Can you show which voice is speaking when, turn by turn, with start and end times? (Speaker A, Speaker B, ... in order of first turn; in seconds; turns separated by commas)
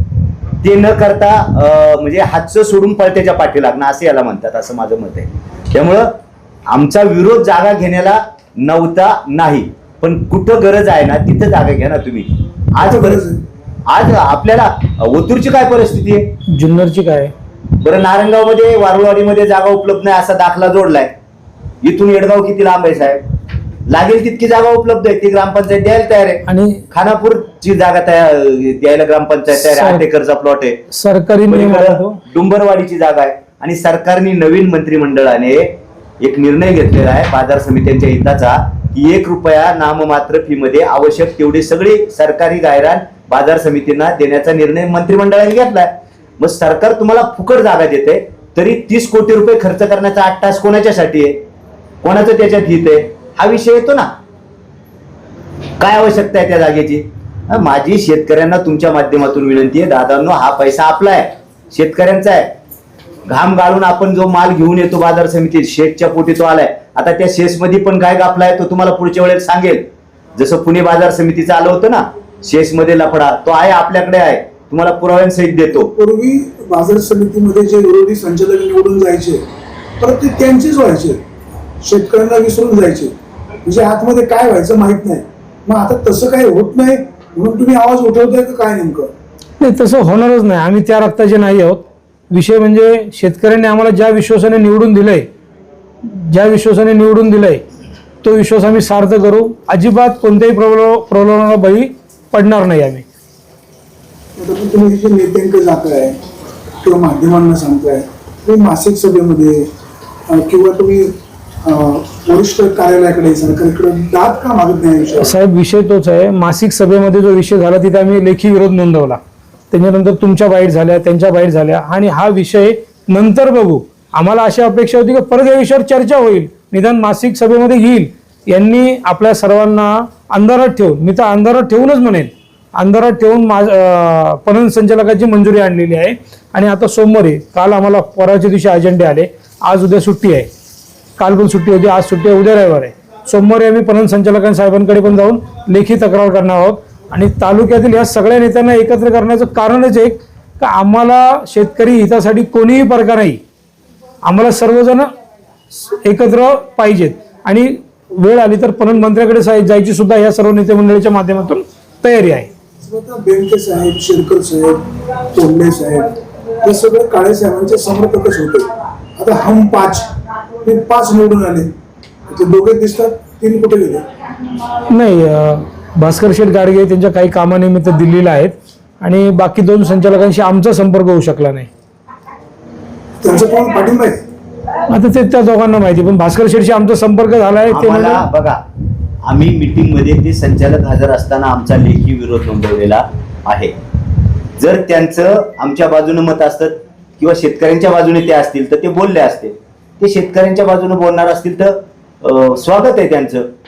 Speaker A: 0.6-6.2, Speaker A: 6.7-13.2, Speaker B: 12.8-13.4, Speaker A: 13.9-16.3, Speaker C: 16.5-17.3, Speaker A: 17.8-21.1, Speaker A: 21.8-23.2, Speaker A: 23.9-30.8, Speaker C: 26.4-26.8, Speaker C: 29.6-30.0, Speaker C: 30.9-32.2, Speaker A: 31.5-51.4, Speaker A: 52.0-54.1, Speaker A: 55.8-62.5, Speaker A: 63.3-75.9, Speaker B: 75.7-79.4, Speaker B: 80.0-81.2, Speaker B: 81.8-89.1, Speaker C: 89.6-95.3, Speaker C: 96.0-97.6, Speaker C: 98.2-103.0, Speaker B: 104.4-106.2, Speaker B: 106.8-109.7, Speaker B: 110.3-111.1, Speaker B: 111.6-115.3, Speaker C: 115.2-119.2, Speaker C: 119.7-140.5, Speaker C: 141.2-153.4, Speaker C: 154.2-155.1, Speaker C: 155.8-162.5, Speaker B: 162.8-170.1, Speaker B: 170.6-171.7, Speaker B: 172.3-174.0, Speaker C: 174.9-181.7, Speaker B: 183.2-184.2, Speaker C: 184.9-188.2, Speaker A: 187.7-188.6, Speaker A: 189.2-193.7, Speaker A: 194.6-203.4